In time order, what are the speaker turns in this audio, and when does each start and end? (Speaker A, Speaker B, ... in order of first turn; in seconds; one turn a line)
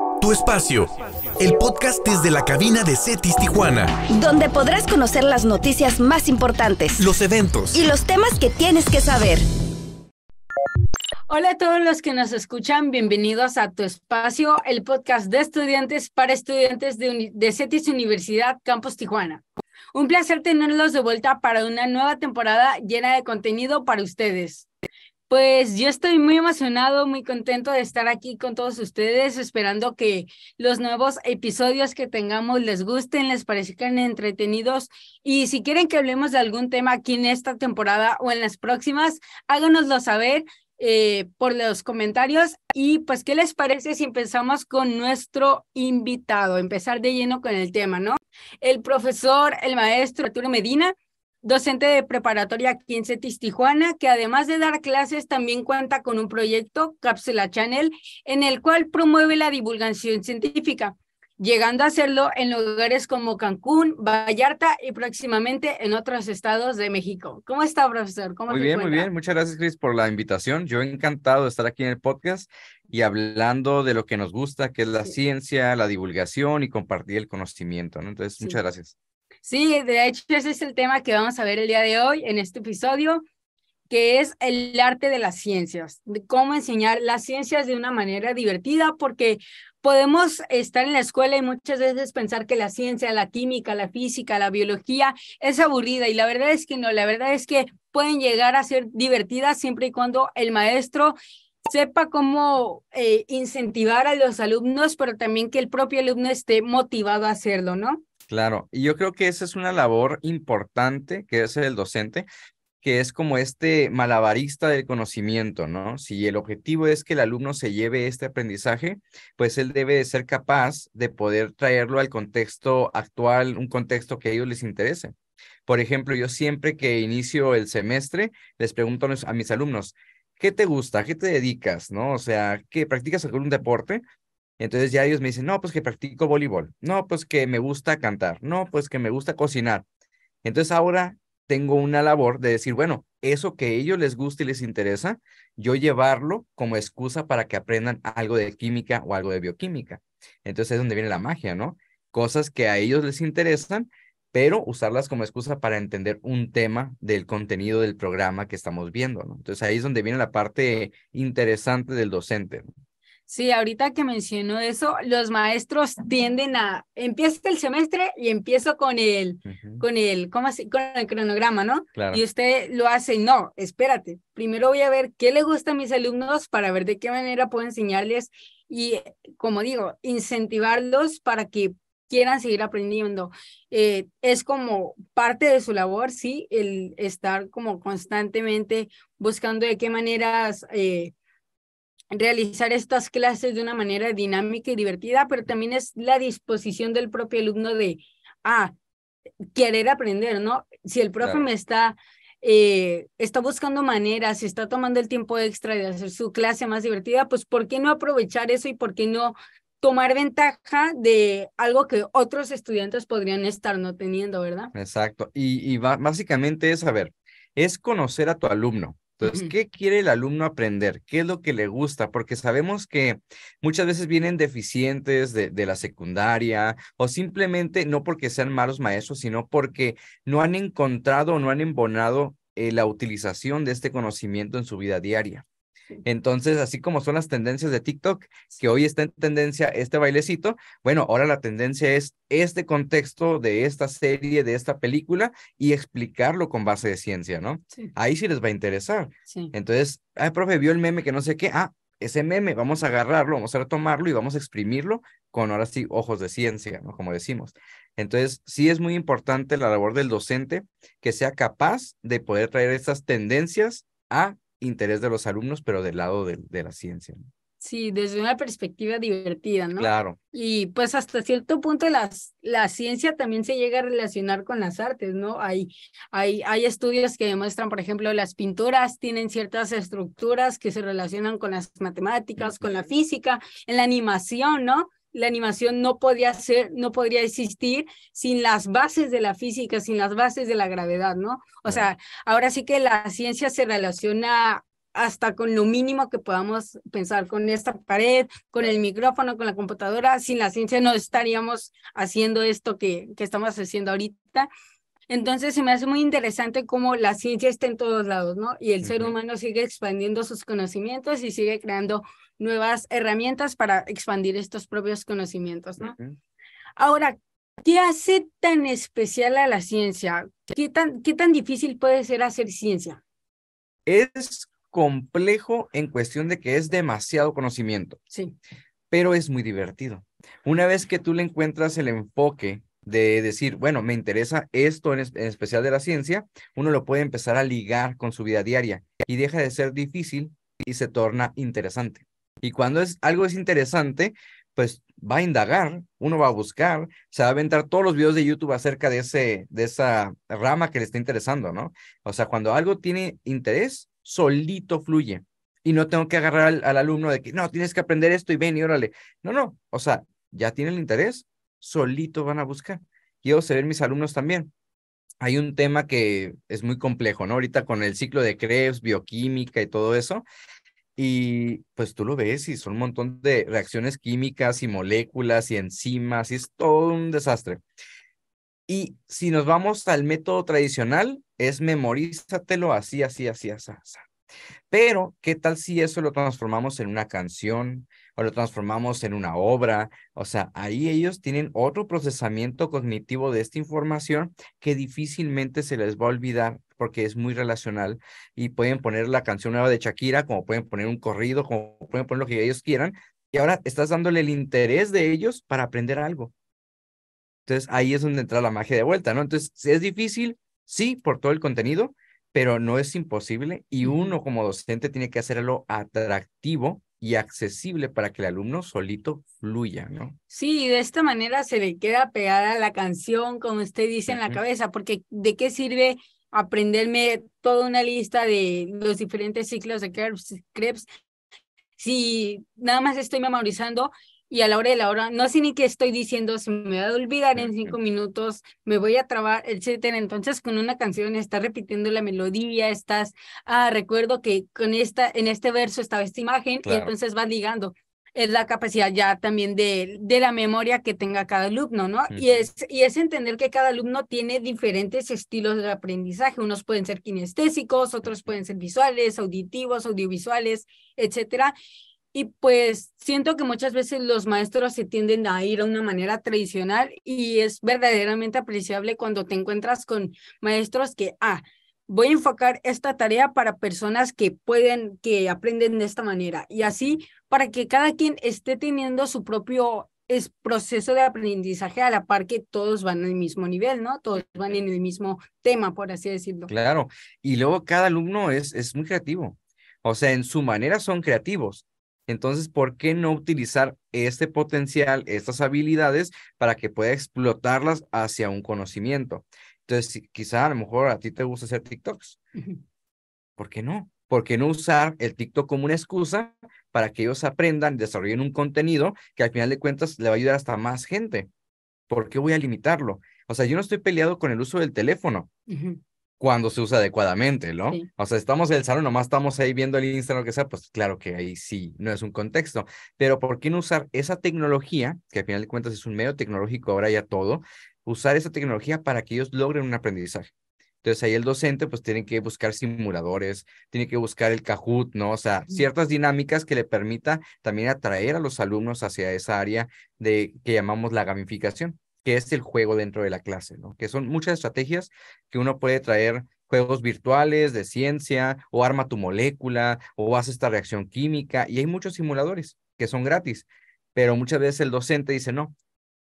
Speaker A: 0.2-3.9
Speaker B: 4.1-7.1
Speaker A: 7.0-7.8
Speaker B: 7.7-9.4
Speaker C: 11.3-19.4
Speaker C: 19.9-24.7
Speaker C: 25.3-69.1
Speaker D: 68.5-78.9
Speaker C: 79.5-83.2
Speaker C: 83.9-108.0
Speaker D: 108.3-112.3
Speaker D: 112.8-125.1
Speaker D: 125.7-134.0
Speaker D: 134.6-139.8
Speaker D: 140.4-162.7
Speaker C: 163.3-191.1
Speaker D: 169.4-169.8
Speaker D: 172.0-172.2
Speaker C: 192.1-198.7
Speaker C: 199.6-214.7
Speaker D: 201.2-201.4
Speaker D: 214.7-235.4
Speaker C: 219.2-219.5
Speaker D: 236.0-267.3
Speaker C: 267.6-304.5
Speaker D: 269.8-270.2
Speaker C: 305.1-315.9
Speaker D: 308.8-309.1
Speaker D: 315.8-316.2
Speaker C: 316.8-323.0
Speaker D: 323.9-328.0
Speaker D: 328.9-364.5
Speaker D: 365.2-370.2
Speaker D: 371.0-377.6
Speaker D: 378.7-384.1
Speaker D: 384.7-406.3
Speaker D: 407.5-420.2
Speaker C: 413.8-414.1
Speaker C: 420.3-430.9
Speaker D: 424.1-424.4
Speaker C: 431.8-461.5
Speaker D: 437.4-437.8
Speaker D: 446.6-446.9
Speaker D: 452.1-452.4
Speaker C: 462.1-486.5
Speaker D: 486.5-502.2
Speaker C: 502.4-502.6
Speaker D: 503.4-511.3
Speaker D: 511.9-515.3
Speaker C: 515.5-515.8
Speaker D: 516.2-530.3
Speaker D: 530.8-555.5